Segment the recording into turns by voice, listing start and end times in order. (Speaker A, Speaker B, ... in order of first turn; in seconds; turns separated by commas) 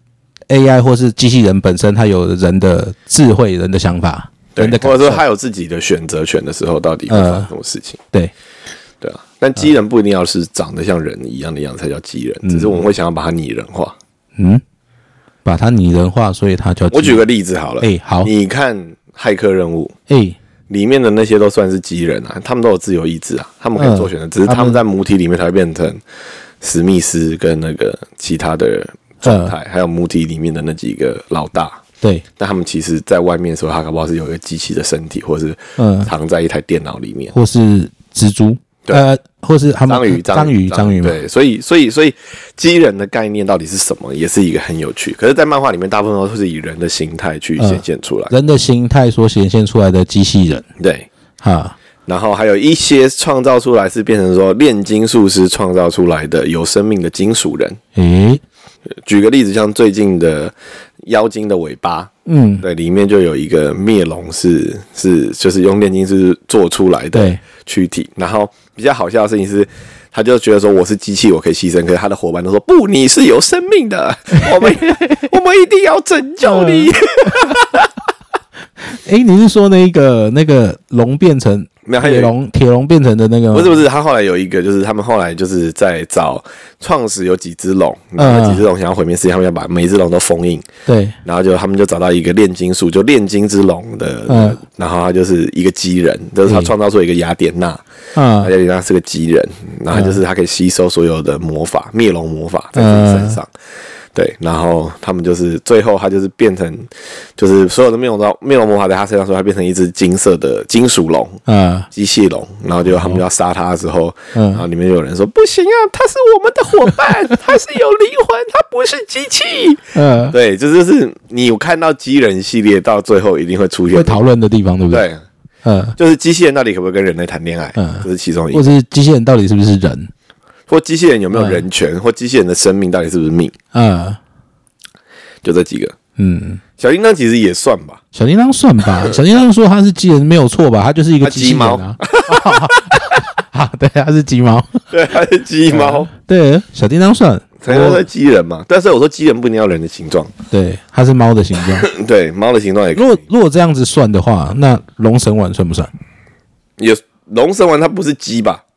Speaker A: 0.5-5.2, Speaker B: 4.5-8.0, Speaker A: 7.1-7.5, Speaker B: 9.0-14.0, Speaker A: 12.4-12.8, Speaker A: 14.4-14.6, Speaker A: 15.4-17.2, Speaker B: 16.9-19.9, Speaker A: 17.8-18.3, Speaker A: 20.1-20.4, Speaker B: 20.7-26.0, Speaker A: 23.8-24.8, Speaker B: 26.6-31.8, Speaker A: 29.2-29.5, Speaker B: 32.4-37.3, Speaker A: 35.8-36.1, Speaker A: 37.3-41.2, Speaker B: 39.9-48.3, Speaker A: 47.6-50.6, Speaker B: 50.8-51.1, Speaker A: 51.4-51.8, Speaker B: 52.1-57.8, Speaker A: 58.0-58.4, Speaker B: 59.0-77.9, Speaker A: 62.3-62.6, Speaker A: 67.1-67.4, Speaker A: 74.4-75.2, Speaker A: 76.4-77.5, Speaker A: 78.8-83.8, Speaker B: 81.9-82.3, Speaker B: 83.5-90.7, Speaker A: 88.2-88.7, Speaker A: 90.9-91.2, Speaker B: 91.2-97.8, Speaker A: 94.3-94.6, Speaker A: 96.5-96.7, Speaker A: 98.2-98.5, Speaker B: 98.4-103.5, Speaker A: 99.9-100.2, Speaker A: 102.8-103.4, Speaker B: 104.2-111.4, Speaker A: 111.5-111.9, Speaker B: 111.9-124.2, Speaker A: 112.9-113.2, Speaker A: 114.3-114.6, Speaker A: 120.0-120.4, Speaker A: 123.9-125.0, Speaker B: 124.9-125.2, Speaker A: 125.6-126.0, Speaker B: 126.0-128.7, Speaker A: 127.8-130.1, Speaker B: 130.7-133.5, Speaker A: 131.3-131.7, Speaker A: 133.7-134.2, Speaker B: 135.4-136.0, Speaker A: 136.2-136.6, Speaker B: 136.8-138.0, Speaker A: 138.1-144.8, Speaker B: 141.2-142.8, Speaker B: 144.9-146.1, Speaker A: 145.7-148.0, Speaker B: 147.6-150.3, Speaker A: 150.5-151.9, Speaker B: 151.8-153.2, Speaker A: 153.0-155.9, Speaker B: 156.8-158.6